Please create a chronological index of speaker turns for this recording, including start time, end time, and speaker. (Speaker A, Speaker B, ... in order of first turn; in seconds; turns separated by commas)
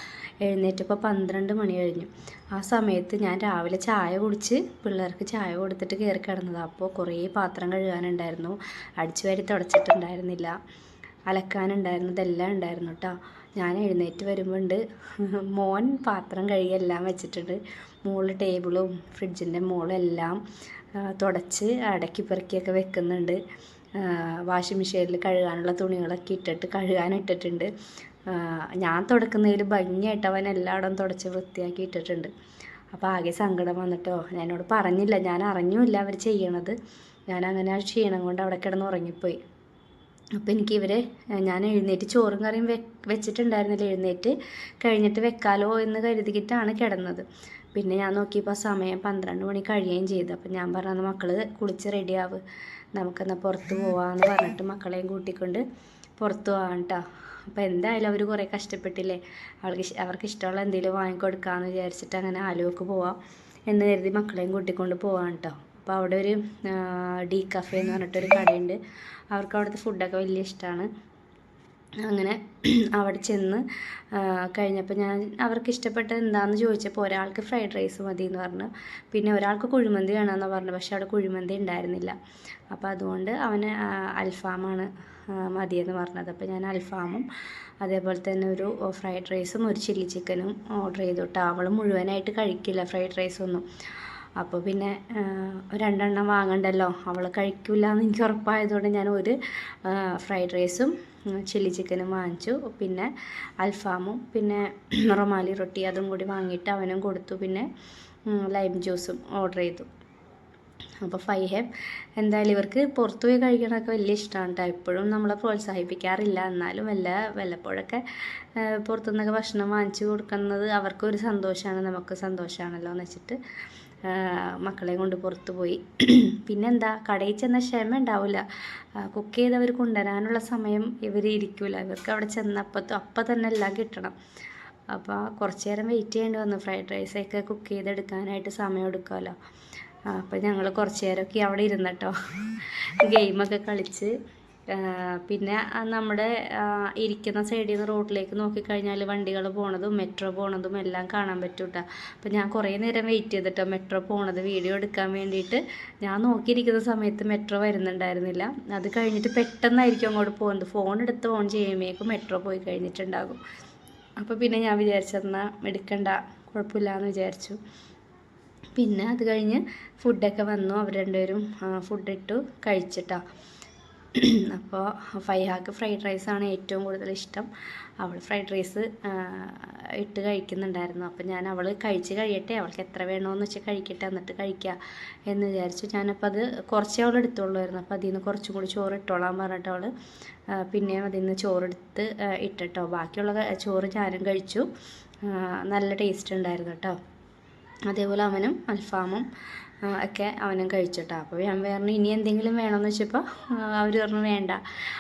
Speaker A: 0.4-10.6, Speaker A: 11.3-20.4, Speaker A: 20.9-23.4, Speaker A: 23.9-27.7, Speaker A: 28.3-32.3, Speaker A: 32.9-36.8, Speaker A: 37.3-39.4, Speaker A: 40.4-52.4, Speaker A: 53.0-55.6, Speaker A: 56.2-63.2, Speaker A: 63.7-68.8, Speaker A: 69.3-70.9, Speaker A: 72.0-82.2, Speaker A: 82.7-87.3, Speaker A: 87.8-93.6, Speaker A: 94.4-107.7, Speaker A: 108.3-109.9, Speaker A: 111.0-123.4, Speaker A: 124.0-128.4, Speaker A: 128.9-134.1, Speaker A: 134.9-139.4, Speaker A: 140.1-144.1, Speaker A: 144.7-163.4, Speaker A: 164.2-167.6, Speaker A: 168.8-173.2, Speaker A: 174.1-189.9, Speaker A: 190.5-194.7, Speaker A: 195.2-197.0, Speaker A: 197.9-199.3, Speaker A: 199.8-204.6